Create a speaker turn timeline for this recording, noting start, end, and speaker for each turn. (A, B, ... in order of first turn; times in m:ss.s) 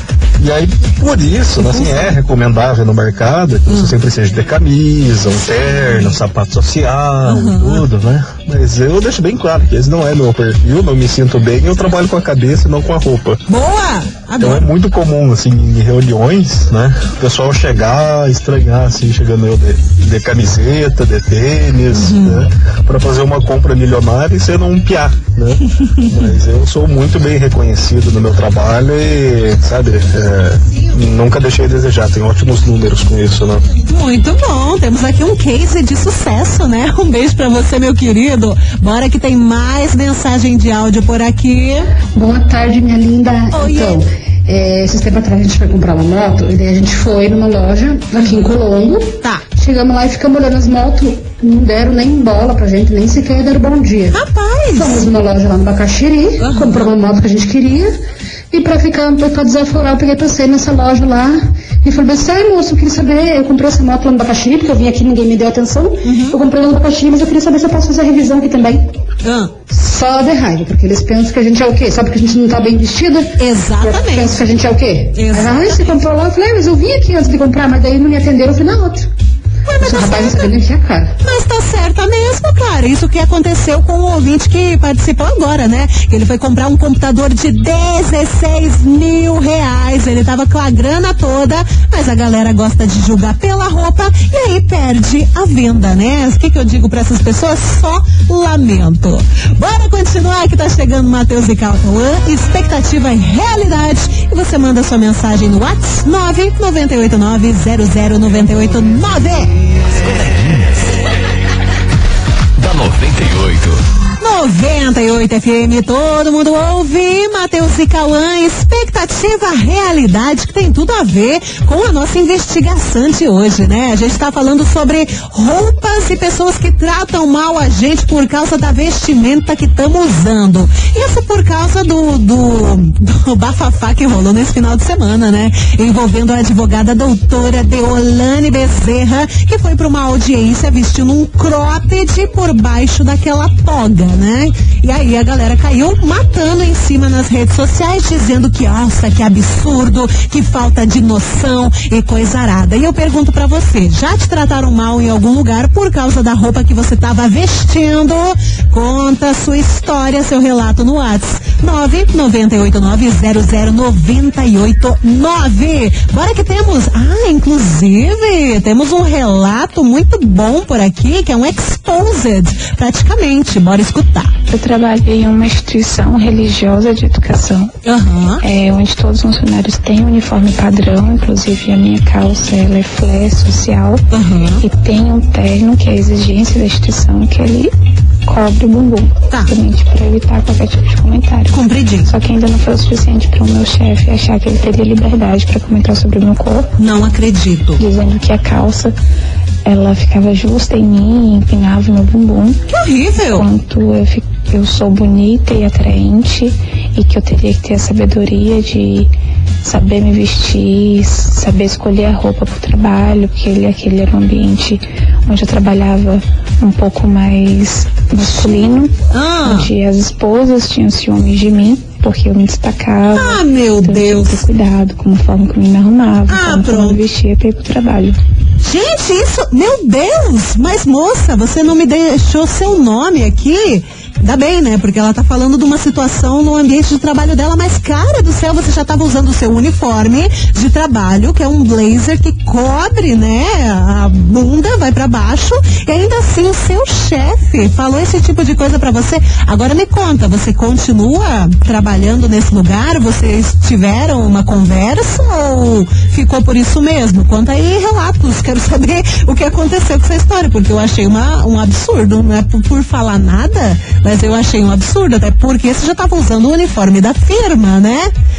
0:00.4-0:13.4 A
0:01.6-0:02.1 B
0:03.7-0:03.9 B
0:05.8-0:06.2 B
0:07.2-0:07.9 B
0:13.5-0:14.7 B
0:14.4-0:33.7 A
0:21.9-0:22.5 B
0:25.8-0:26.3 B
0:33.9-0:41.9 B
0:42.2-0:54.2 C
0:43.5-0:44.0 B
0:48.2-0:48.6 B
0:54.1-0:55.0 B
0:54.7-0:58.0 C
0:56.4-0:56.9 B
0:58.5-1:08.8 C
1:06.0-1:06.4 B
1:09.2-1:09.5 B
1:09.7-1:19.1 C
1:13.4-1:14.4 B
1:15.2-1:16.0 B
1:19.7-1:20.5 B
1:19.8-1:21.2 C
1:21.2-1:49.6 B
1:49.8-1:51.0 D
1:52.6-1:53.8 D
1:54.2-2:54.3 B
2:54.5-2:57.7 E
2:57.8-2:58.4 B
2:58.4-3:04.1 E
3:04.1-3:04.6 B
3:04.6-3:07.7 E
3:08.3-3:16.7 E
3:11.5-3:12.1 B
3:16.8-3:17.8 B
3:17.8-3:18.9 E
3:19.6-3:22.6 E
3:22.7-3:23.4 B
3:23.2-3:29.1 E
3:29.6-3:48.2 E
3:38.2-3:39.7 B
3:43.1-3:44.4 B
3:46.3-3:47.0 B
3:48.6-4:28.1 B